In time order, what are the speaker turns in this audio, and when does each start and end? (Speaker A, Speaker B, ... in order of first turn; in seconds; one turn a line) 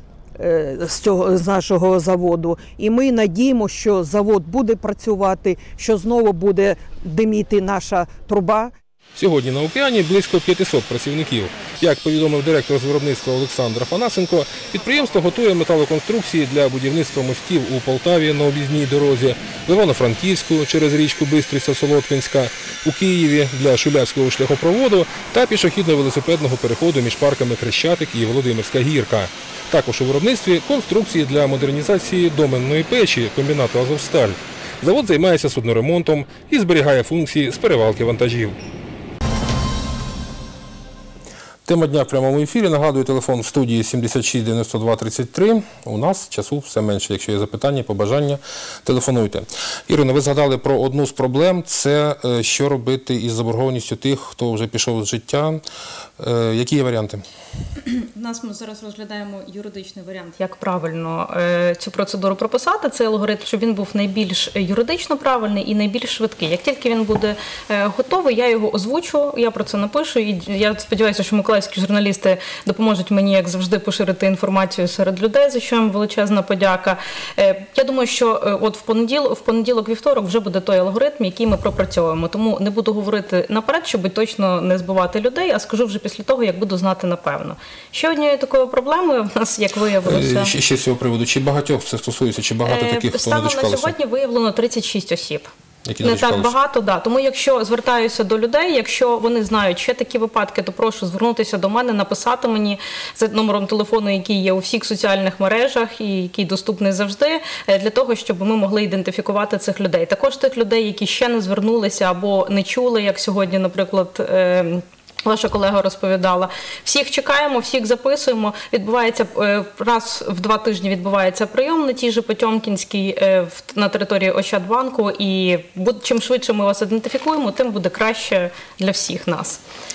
Speaker A: 0.4-8.7
Speaker B: 9.2-38.6
Speaker B: 41.6-55.6
Speaker B: 56.2-57.2
Speaker C: 57.8-90.5
Speaker B: 90.0-93.9
Speaker C: 92.6-95.5
Speaker B: 95.9-96.5
Speaker C: 96.0-129.6